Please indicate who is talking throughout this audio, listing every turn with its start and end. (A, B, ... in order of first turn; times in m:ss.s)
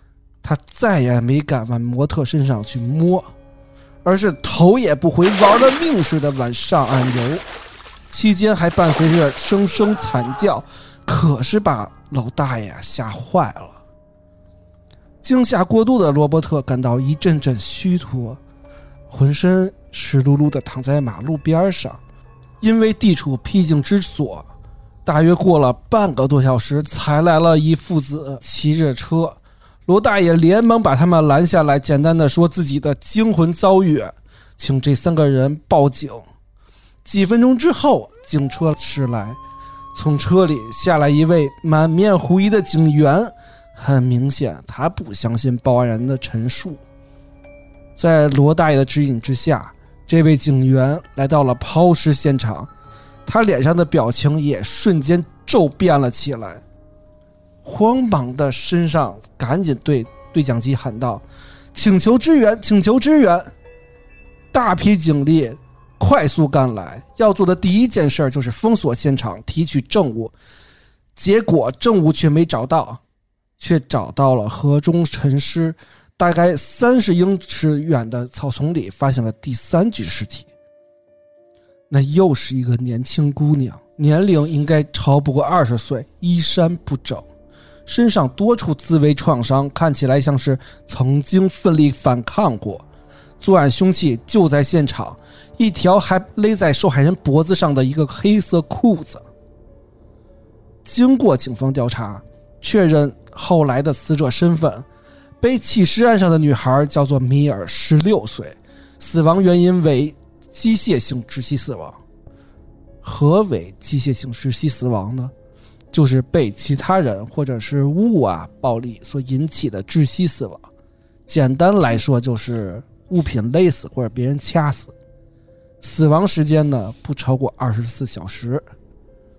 0:00.4-0:03.3 A
0:04.0-0:07.4 A
0:08.1-0:13.8 A
0:15.2-0:18.4 A
0:19.1-0:22.0 A
0:22.6-0:24.5 A
0:25.0-0:36.3 A
0:37.0-0:39.4 A
0:39.9-0:46.8 A
0:48.0-0:52.7 A
0:53.3-0:56.6 A
0:57.6-1:03.5 A
1:04.5-1:10.3 A
1:11.2-1:13.0 A
1:13.6-1:20.5 A
1:21.9-1:27.2 A
1:27.9-1:32.8 A
1:33.4-1:39.2 A
1:40.8-1:44.8 A
1:45.4-1:52.0 A
1:53.0-1:55.3 A
1:55.9-2:00.6 A
2:01.3-2:04.9 A
2:05.8-2:08.6 A